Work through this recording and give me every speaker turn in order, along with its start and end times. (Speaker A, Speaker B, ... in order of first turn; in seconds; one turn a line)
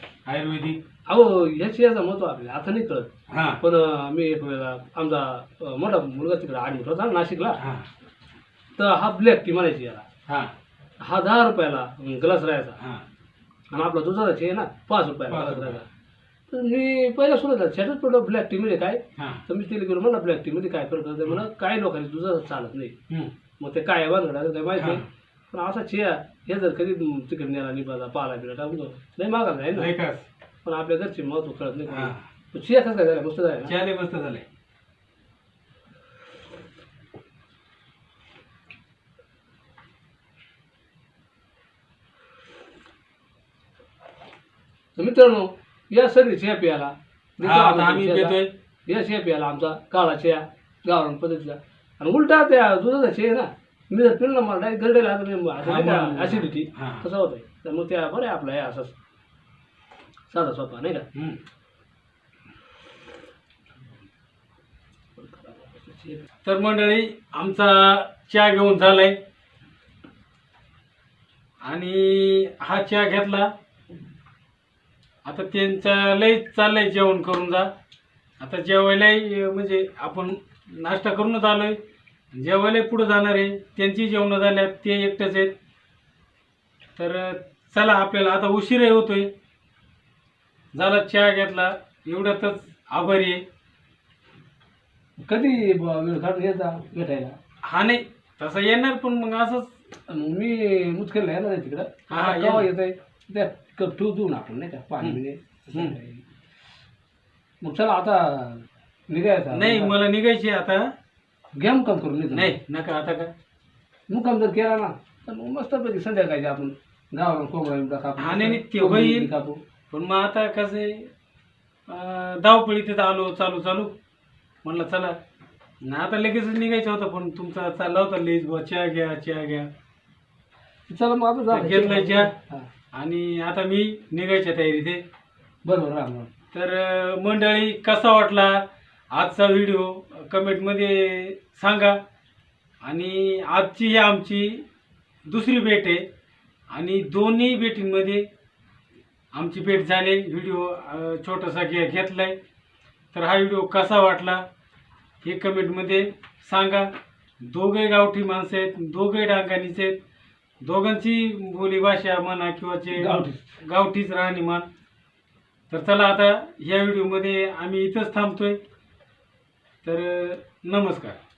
Speaker A: 0.2-0.8
Speaker B: 1.1-3.1
Speaker A: 3.3-3.6
Speaker B: 3.6-7.6
Speaker A: 7.6-7.8
Speaker B: 8.8-10.1
Speaker B: 11.0-12.8
Speaker B: 13.7-15.8
Speaker A: 15.3-15.8
Speaker B: 16.5-22.9
Speaker A: 19.2-19.4
Speaker B: 23.6-29.9
Speaker A: 24.8-25.0
Speaker A: 29.7-30.3
Speaker B: 30.6-33.7
Speaker A: 31.9-32.2
Speaker A: 33.6-34.4
Speaker B: 45.0-58.9
Speaker A: 47.4-48.5
Speaker A: 55.6-57.0
Speaker B: 60.3-61.0
Speaker B: 65.2-66.3
Speaker A: 66.4-69.2
Speaker A: 71.6-73.5
Speaker A: 75.2-77.7
Speaker A: 78.4-81.8
Speaker A: 82.3-85.5
Speaker A: 87.0-89.3
Speaker A: 90.7-93.4
Speaker B: 95.2-97.3
Speaker A: 97.6-99.7
Speaker B: 100.1-106.2
Speaker A: 102.1-102.7
Speaker B: 107.6-109.9
Speaker A: 109.5-110.8
Speaker B: 111.5-112.5
Speaker A: 112.3-113.3
Speaker B: 114.1-119.6
Speaker A: 118.2-119.3
Speaker A: 119.9-121.1
Speaker A: 121.9-123.9
Speaker A: 124.6-125.2
Speaker A: 125.8-129.7
Speaker B: 130.9-132.7
Speaker A: 131.5-132.3
Speaker A: 132.9-135.0
Speaker B: 135.6-136.3
Speaker A: 136.5-138.6
Speaker A: 139.1-142.0
Speaker A: 142.8-144.6
Speaker A: 145.3-146.0
Speaker A: 146.7-148.2
Speaker A: 149.3-152.4
Speaker A: 153.1-154.4
Speaker A: 155.2-156.9
Speaker A: 157.4-160.0
Speaker A: 160.6-164.7
Speaker B: 162.9-163.4
Speaker A: 165.7-168.6
Speaker A: 169.8-171.2